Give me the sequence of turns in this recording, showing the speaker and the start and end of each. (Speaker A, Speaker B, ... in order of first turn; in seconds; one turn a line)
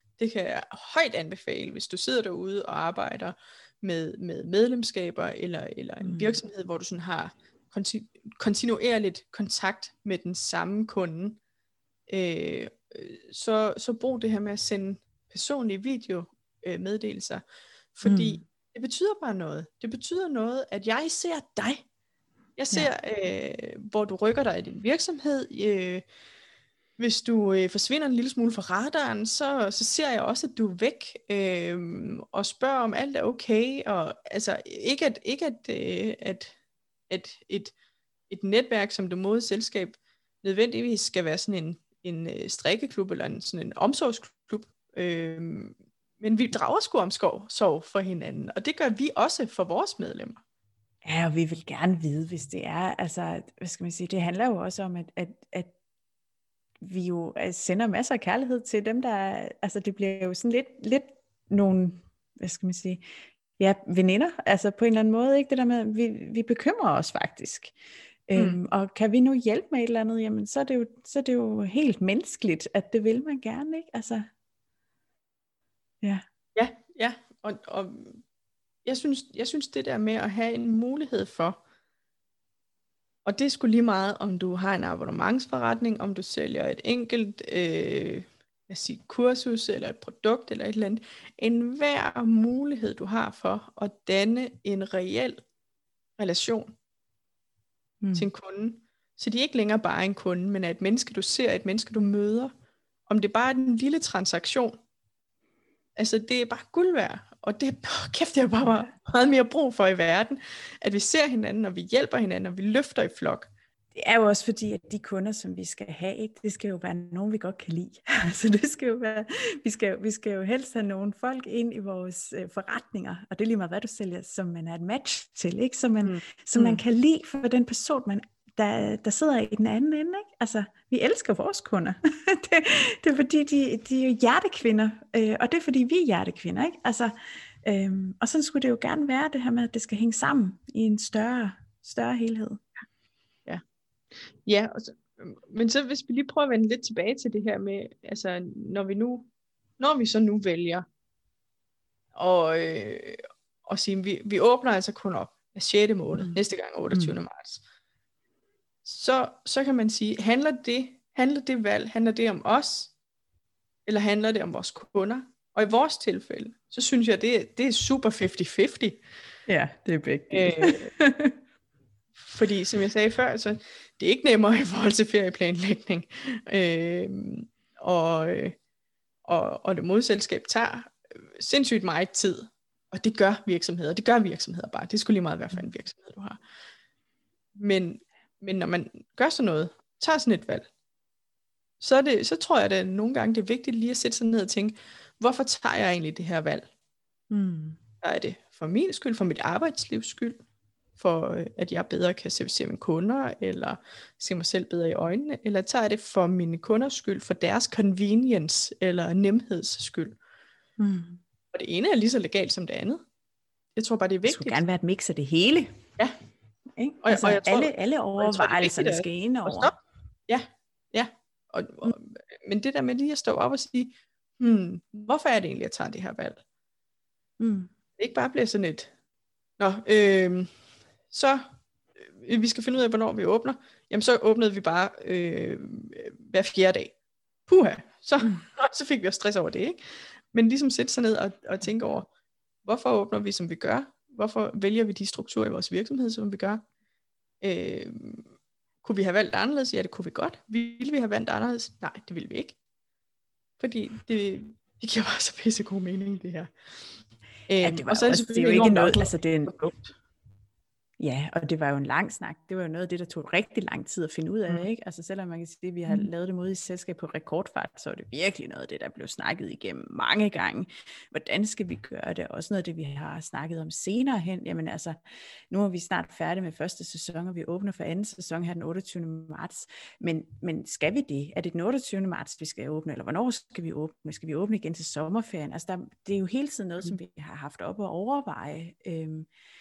Speaker A: 0.2-11.4
Speaker B: 6.0-6.4
Speaker A: 12.1-17.4
Speaker A: 17.9-21.9
Speaker B: 18.0-18.4
Speaker A: 22.6-26.1
Speaker A: 27.0-36.5
Speaker A: 37.1-37.7
Speaker A: 38.3-50.4
Speaker B: 51.0-55.7
Speaker B: 56.8-63.0
Speaker B: 63.6-67.8
Speaker B: 68.3-74.3
Speaker A: 76.6-78.2
Speaker A: 78.8-81.6
Speaker A: 83.2-95.4
Speaker A: 96.2-96.7
Speaker B: 98.0-98.3
Speaker A: 98.2-102.5
Speaker A: 103.1-104.8
Speaker A: 106.0-113.5
Speaker B: 113.9-142.6
Speaker A: 126.0-126.8
Speaker A: 144.2-150.8
Speaker A: 152.2-157.6
Speaker A: 158.8-162.9
Speaker A: 163.9-169.0
Speaker B: 169.5-171.4
Speaker A: 170.3-170.9
Speaker A: 172.2-178.6
Speaker A: 179.3-186.4
Speaker A: 187.6-190.7
Speaker A: 191.8-196.7
Speaker B: 197.3-197.8
Speaker A: 198.0-200.4
Speaker A: 201.0-210.2
Speaker B: 210.8-211.2
Speaker A: 211.5-213.0
Speaker A: 213.8-214.6
Speaker B: 214.3-215.8
Speaker B: 216.8-219.7
Speaker A: 217.0-219.7
Speaker A: 220.3-226.4
Speaker B: 227.4-227.7
Speaker A: 228.0-228.9
Speaker A: 229.6-230.5
Speaker A: 231.1-231.4
Speaker A: 232.1-236.9
Speaker A: 237.5-239.8
Speaker A: 240.3-242.1
Speaker A: 242.7-246.7
Speaker A: 247.4-248.3
Speaker A: 248.8-252.6
Speaker A: 253.6-256.5
Speaker A: 257.5-259.9
Speaker B: 257.6-259.6
Speaker B: 261.0-275.0
Speaker B: 275.5-289.3